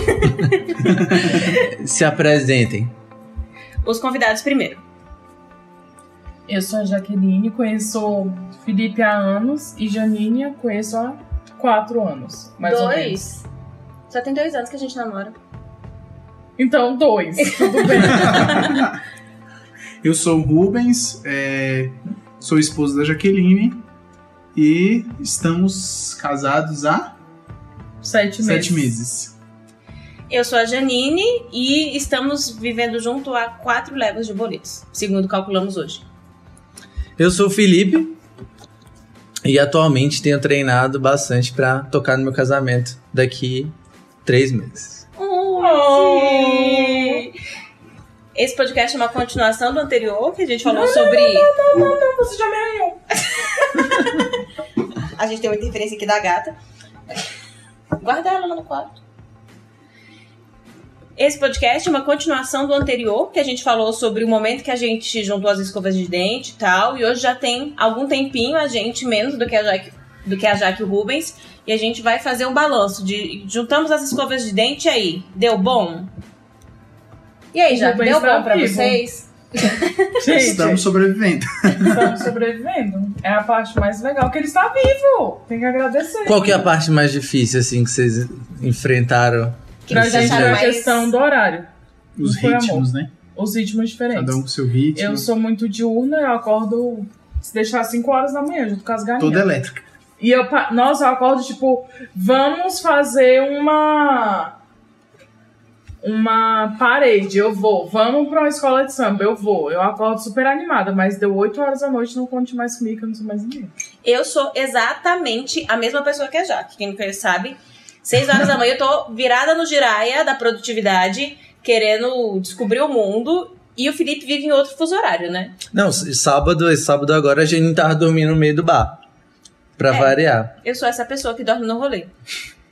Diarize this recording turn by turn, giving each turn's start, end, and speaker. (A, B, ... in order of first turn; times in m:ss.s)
0:00.9-0:02.9 A
0:03.8-0:04.8 B
0:06.5-0:13.2 C
0:12.6-0:13.5 B
0:14.1-0:15.4 B
0:16.6-0:18.8 C
0:17.8-0:18.7 B
0:18.2-0:19.0 D
0:20.0-0:23.8 D
0:24.6-0:27.2 D
0:28.0-0:28.9 C
0:28.4-0:29.3 D
0:30.3-0:36.0 B
0:37.2-0:38.2 A
0:39.4-0:43.7 A
0:44.2-0:45.0 A
0:45.2-0:47.3 B
0:45.6-0:47.3 C
0:48.4-0:51.5 B
0:50.6-0:53.3 C
0:53.8-0:54.1 B
0:55.1-0:56.6 B
0:58.0-0:59.0 B
1:01.2-1:16.1 B
1:17.5-1:20.2 B
1:17.7-1:19.0 C
1:20.2-1:20.8 C
1:20.3-1:22.1 D
1:21.8-1:26.6 C
1:26.2-1:30.7 A
1:29.9-1:31.1 B
1:29.9-1:31.7 C
1:32.2-1:33.1 D
1:32.2-1:34.4 C
1:34.1-1:35.3 D
1:35.0-1:39.6 C
1:39.2-1:39.8 D
1:40.2-1:44.5 C
1:46.0-1:53.7 C
1:54.0-2:05.6 B
2:05.7-2:09.0 A
2:09.8-2:10.5 A
2:09.9-2:12.1 B